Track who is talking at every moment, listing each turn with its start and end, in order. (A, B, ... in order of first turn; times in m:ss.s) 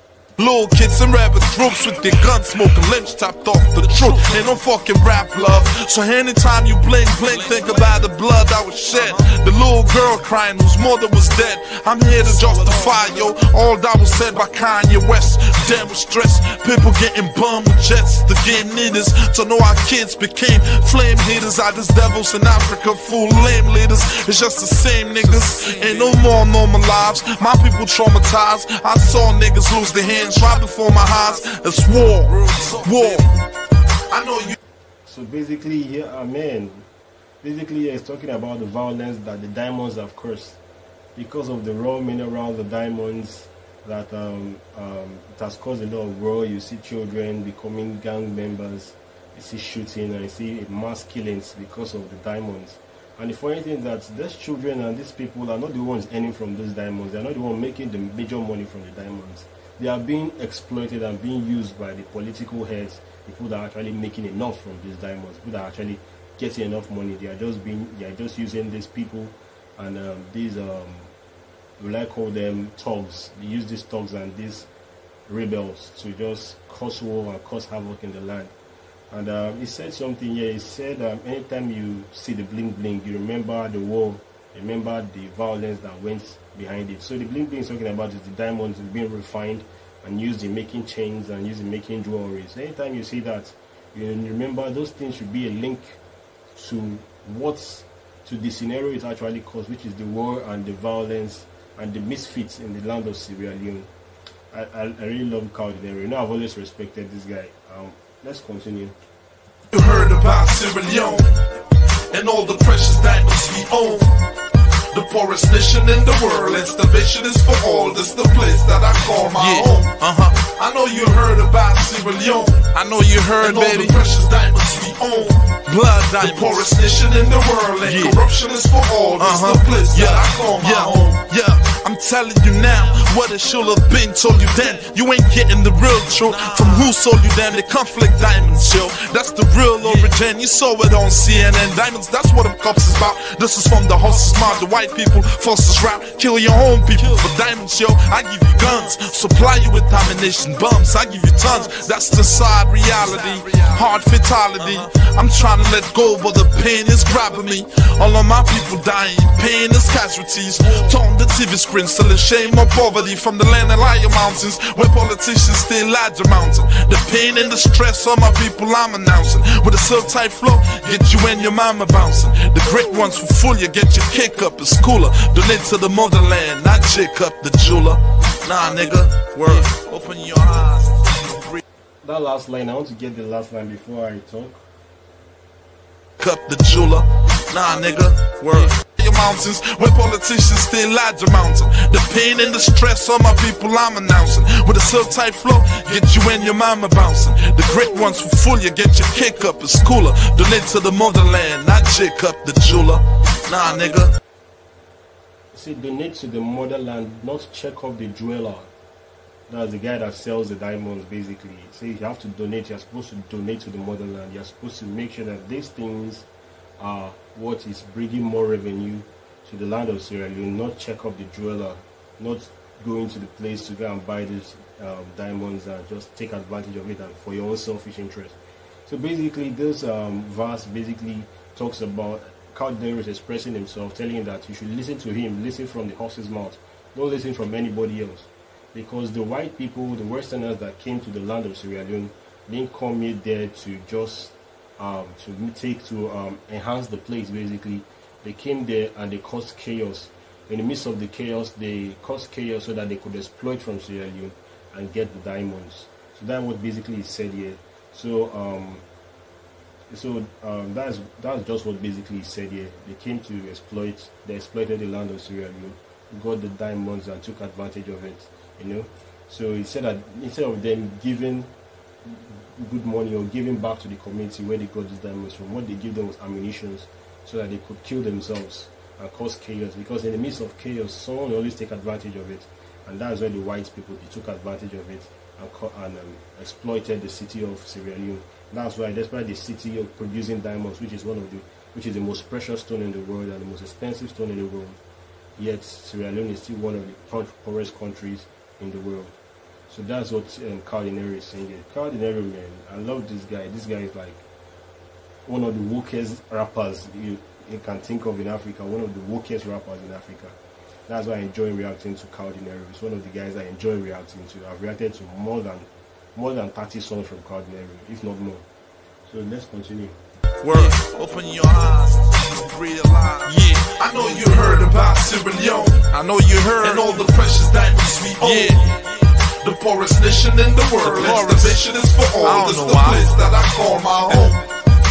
0:00.4-0:33.3 A
0:03.8-0:04.4 B
0:07.3-0:08.1 B
0:08.9-0:09.4 B
0:12.1-0:13.3 B
0:25.0-0:26.4 B
0:30.3-0:33.3 B
0:34.1-0:34.6 A
0:35.1-0:36.9 C
0:37.4-0:40.6 C
0:41.2-1:11.1 C
1:11.8-1:14.7 C
1:15.3-1:18.5 C
1:19.1-1:36.0 C
1:36.6-1:43.9 C
1:44.5-1:48.9 C
1:49.7-1:51.3 A
1:52.1-1:54.1 A
1:53.0-1:53.4 B
1:54.9-1:56.8 A
1:55.0-2:00.1 B
1:58.7-2:00.7 A
2:00.6-2:02.7 B
2:01.9-2:04.1 A
2:03.3-2:11.2 B
2:05.5-2:07.2 A
2:07.8-2:08.2 A
2:09.2-3:01.6 A
2:14.4-2:14.9 B
2:16.2-2:17.8 B
2:19.8-2:20.3 B
2:21.2-2:21.5 B
2:24.1-2:24.7 B
2:26.8-2:27.3 B
2:28.6-2:29.0 B
2:31.4-2:32.1 B
2:32.9-2:33.9 B
2:34.6-2:34.9 B
2:37.2-2:37.5 B
2:40.7-2:41.0 B
2:58.7-2:59.8 B
3:02.0-3:04.6 C
3:06.2-3:24.1 A
3:08.4-3:08.8 B
3:25.5-3:28.7 C
3:29.5-3:36.2 C
3:36.8-4:18.8 C
4:19.9-4:31.5 C
4:32.0-4:54.8 C
4:55.4-4:59.1 C
4:59.7-5:04.2 C
5:05.2-5:10.4 C
5:10.9-5:18.4 C
5:19.1-5:19.9 C
5:20.4-5:27.7 A
5:20.5-5:22.2 B
5:22.8-5:25.8 B
5:26.4-5:34.4 B
5:28.2-5:28.7 A
5:30.0-5:34.4 A